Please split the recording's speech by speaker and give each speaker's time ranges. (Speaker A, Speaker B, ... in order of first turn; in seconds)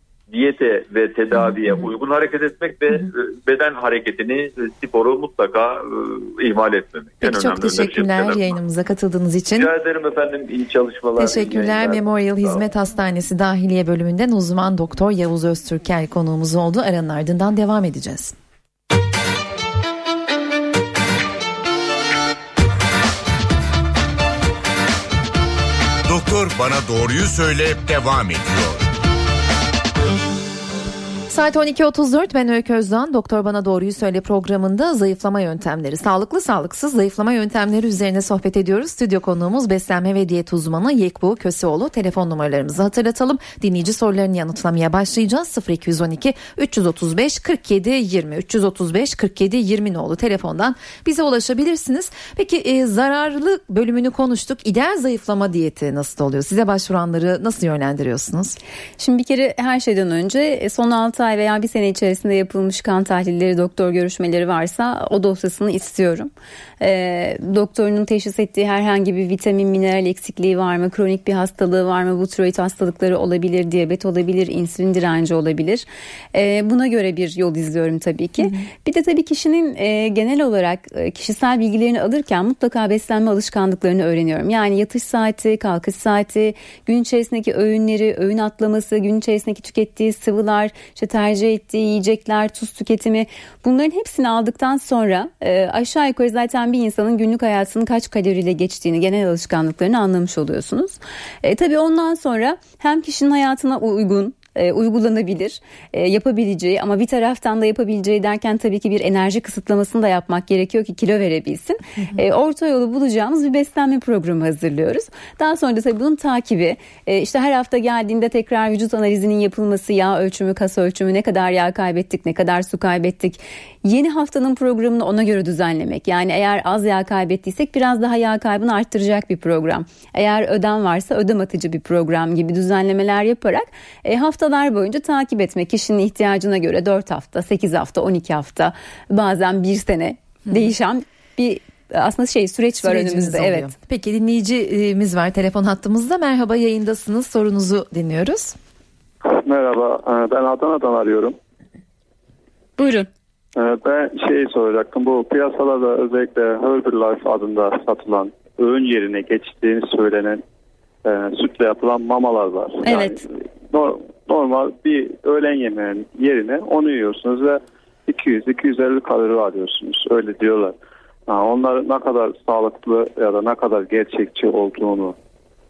Speaker A: 0.3-8.5, 9.6-12.6
Speaker B: 7.2-9.7, 11.2-18.3, 31.3-58.6, 142.8-148.6
Speaker C: 26.1-28.9
Speaker D: 59.0-143.7, 152.8-153.1, 162.8-163.2
Speaker E: 149.3-151.4, 153.6-160.4, 161.0-170.8, 171.3-175.2